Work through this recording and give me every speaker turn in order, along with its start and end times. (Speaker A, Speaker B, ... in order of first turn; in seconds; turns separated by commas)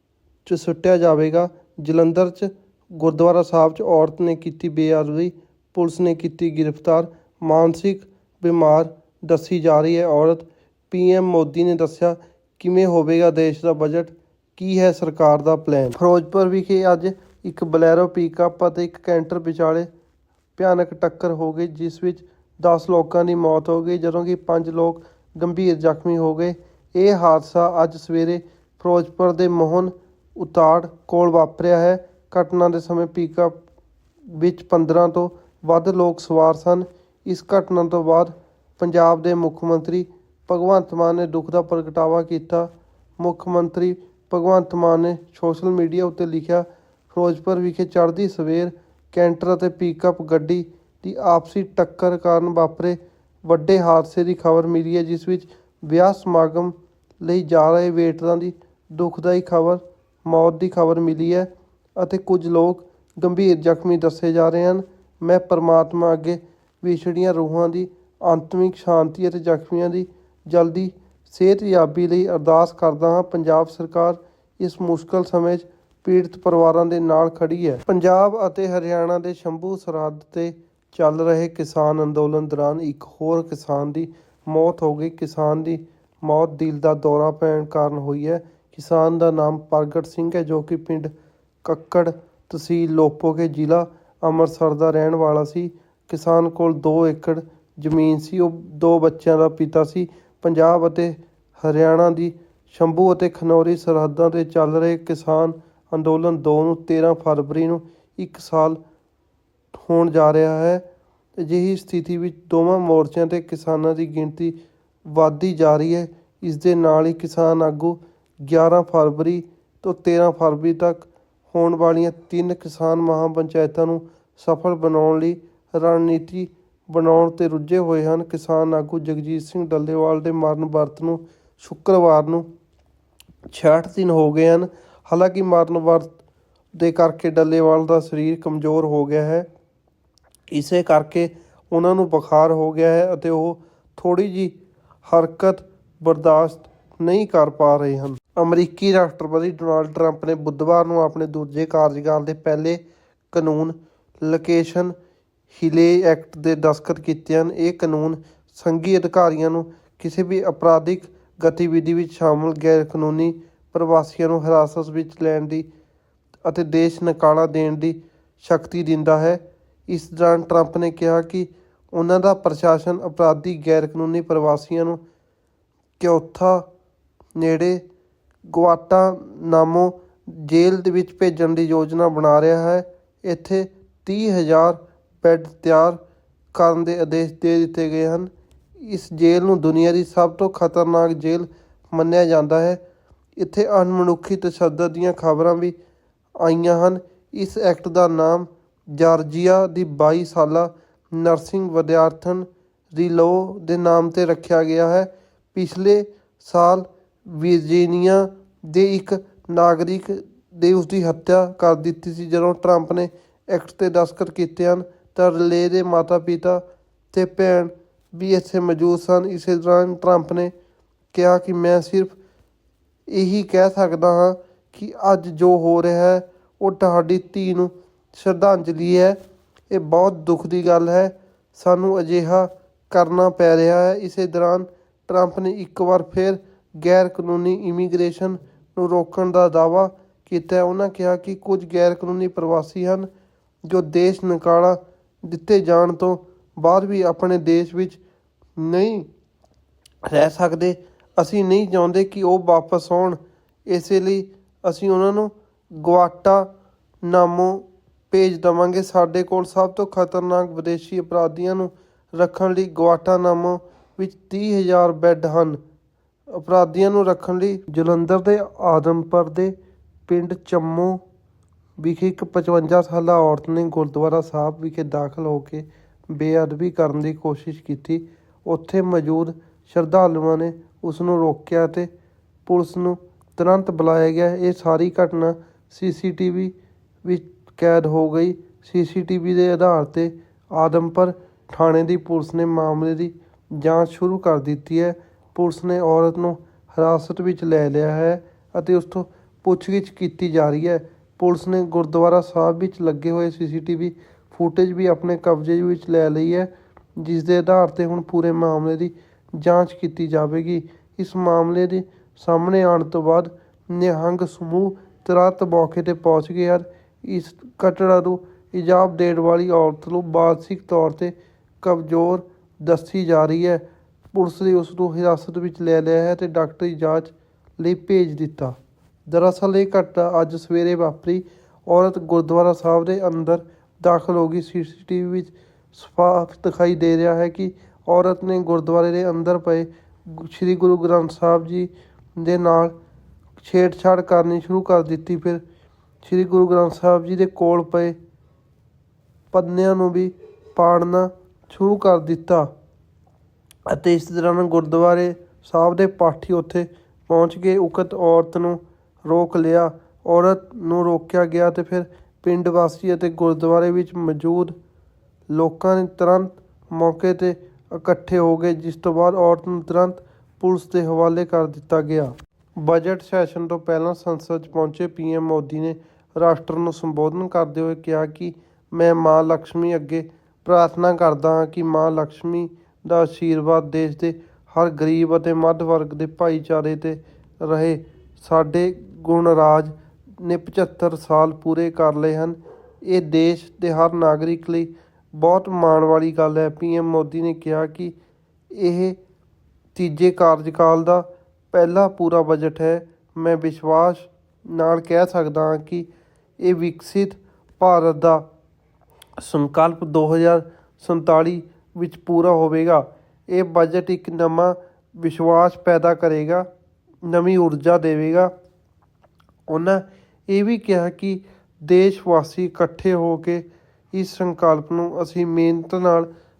Speaker A: 0.4-19.9, Speaker A: 20.6-33.5, Speaker A: 34.3-91.1, Speaker A: 91.6-108.8, Speaker A: 109.7-110.8, Speaker A: 111.4-132.4, Speaker A: 133.5-136.2, Speaker A: 136.8-139.5, Speaker A: 140.5-144.5, Speaker A: 145.1-154.9, Speaker A: 155.5-165.7, Speaker A: 166.4-175.0, Speaker A: 176.0-176.7, Speaker A: 177.3-177.8, Speaker A: 178.5-186.0, Speaker A: 186.5-192.8, Speaker A: 193.4-195.7, Speaker A: 196.4-220.5, Speaker A: 221.1-222.2, Speaker A: 223.1-229.2, Speaker A: 229.7-243.1, Speaker A: 243.7-248.0, Speaker A: 248.6-249.1, Speaker A: 250.0-256.5, Speaker A: 257.0-265.6, Speaker A: 266.3-269.5, Speaker A: 270.1-271.0, Speaker A: 271.8-281.9, Speaker A: 282.4-328.6, Speaker A: 329.1-342.7, Speaker A: 343.4-345.4, Speaker A: 346.0-347.9, Speaker A: 349.3-352.5, Speaker A: 353.7-364.5, Speaker A: 365.3-397.9, Speaker A: 398.5-399.0, Speaker A: 399.7-405.9, Speaker A: 406.4-408.2, Speaker A: 409.2-416.5, Speaker A: 417.0-418.3, Speaker A: 419.5-426.1